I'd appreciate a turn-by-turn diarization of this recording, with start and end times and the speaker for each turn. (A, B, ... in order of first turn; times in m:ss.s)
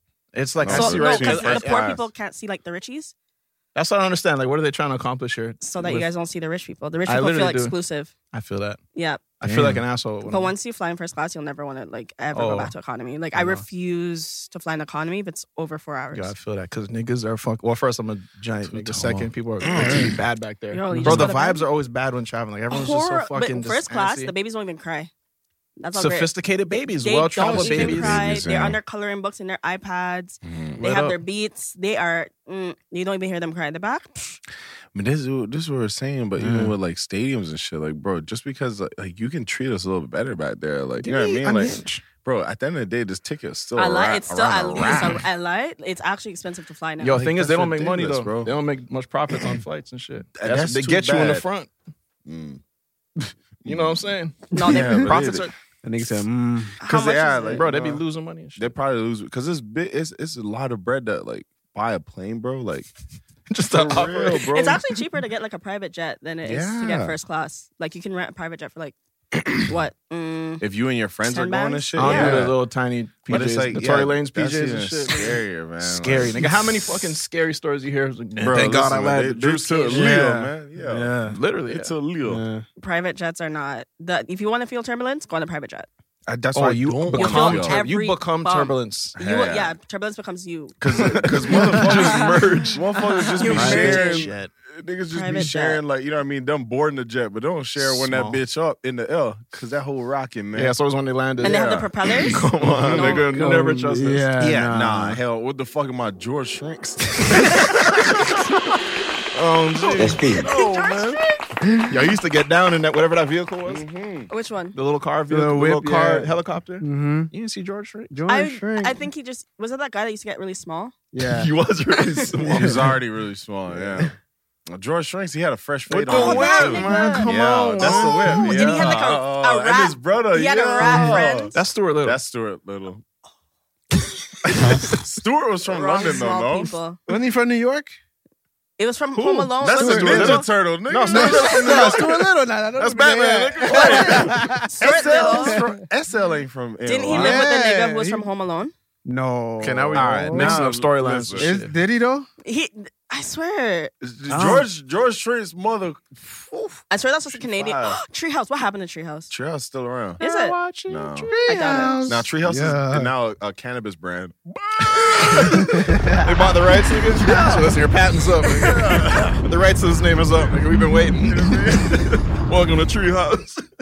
0:00.3-0:01.9 A
0:00.6-0:02.1 B
0:00.7-0:03.1 C
0:03.8-0:06.1 A
0:05.6-0:08.1 C
0:07.1-0:07.8 A
0:08.3-0:08.8 A
0:09.0-0:09.2 C
0:09.4-0:10.5 A
0:09.4-0:09.8 D
0:10.2-0:16.3 C
0:12.3-0:12.7 A
0:13.3-0:13.6 A
0:16.1-0:24.3 A
0:18.7-0:20.2 B
0:19.8-0:20.1 D
0:20.7-0:21.6 C
0:20.9-0:21.3 D
0:22.7-0:25.1 C
0:25.8-0:34.4 C
0:26.0-0:28.4 A
0:27.4-0:28.8 B
0:30.4-0:30.8 B
0:30.8-0:31.2 A
0:34.9-0:45.2 B
0:36.4-0:36.7 D
0:41.0-0:42.0 A
0:43.8-0:47.3 C
0:47.0-0:51.7 A
0:47.1-0:48.5 B
0:50.4-0:51.4 B
0:52.2-0:52.6 B
0:53.6-0:55.5 B
0:53.7-0:55.5 A
0:54.5-0:55.1 C
0:55.8-0:56.8 D
0:56.8-0:57.6 C
0:56.8-0:58.0 B
0:57.5-0:58.7 A
0:58.6-1:02.9 B
1:03.5-1:04.5 A
1:03.7-1:04.8 B
1:04.5-1:09.0 C
1:06.4-1:07.2 B
1:09.5-1:10.6 C
1:10.6-1:12.6 B
1:11.2-1:12.5 C
1:12.0-1:20.3 A
1:13.3-1:16.5 B
1:18.4-1:22.4 B
1:19.9-1:21.4 D
1:21.3-1:21.9 A
1:22.3-1:22.6 D
1:22.8-1:25.9 C
1:26.3-1:27.8 B
1:26.3-1:27.0 D
1:26.6-1:29.2 A
1:27.1-1:34.3 C
1:29.2-1:29.8 B
1:30.8-1:40.8 B
1:31.1-1:34.5 A
1:35.1-1:35.8 C
1:37.8-1:38.4 A
1:40.6-1:44.4 A
1:41.4-1:43.3 C
1:41.4-1:43.3 B
1:43.3-1:45.2 D
1:44.4-1:48.4 B
1:49.3-1:50.5 A
1:49.9-1:51.2 B
1:50.4-1:51.4 C
1:51.9-1:53.8 A
1:53.7-1:54.3 B
1:54.3-1:54.8 C
1:54.7-1:58.2 A
1:55.3-1:57.3 D
1:58.1-1:59.0 D
1:58.3-2:01.0 C
2:01.1-2:01.5 D
2:01.3-2:02.9 A
2:02.0-2:02.3 C
2:02.5-2:02.8 D
2:02.5-2:04.1 B
2:04.7-2:13.0 B
2:05.9-2:08.9 A
2:06.1-2:11.6 C
2:11.5-2:12.2 A
2:14.5-2:16.8 B
2:15.6-2:17.0 C
2:17.1-2:17.9 D
2:18.8-2:20.5 C
2:19.2-2:22.2 A
2:19.6-2:22.3 B
2:19.8-2:20.1 D
2:21.1-2:25.8 D
2:22.8-2:24.5 A
2:23.6-2:27.5 B
2:24.7-2:25.6 C
2:26.8-2:28.7 C
2:27.1-2:28.2 D
2:29.1-2:30.7 D
2:29.6-2:31.7 A
2:29.9-2:31.5 B
2:31.4-2:32.3 D
2:32.4-2:33.9 C
2:34.0-2:38.0 B
2:34.3-2:34.7 D
2:36.9-2:39.3 C
2:39.3-2:40.2 B
2:40.2-2:40.6 C
2:40.2-2:41.9 A
2:40.9-2:41.4 B
2:41.3-2:43.1 D
2:41.4-2:42.1 C
2:42.0-2:45.8 B
2:44.9-2:53.6 A
2:45.5-2:46.2 D
2:47.3-2:47.6 B
2:48.4-2:49.5 B
2:51.1-2:52.2 B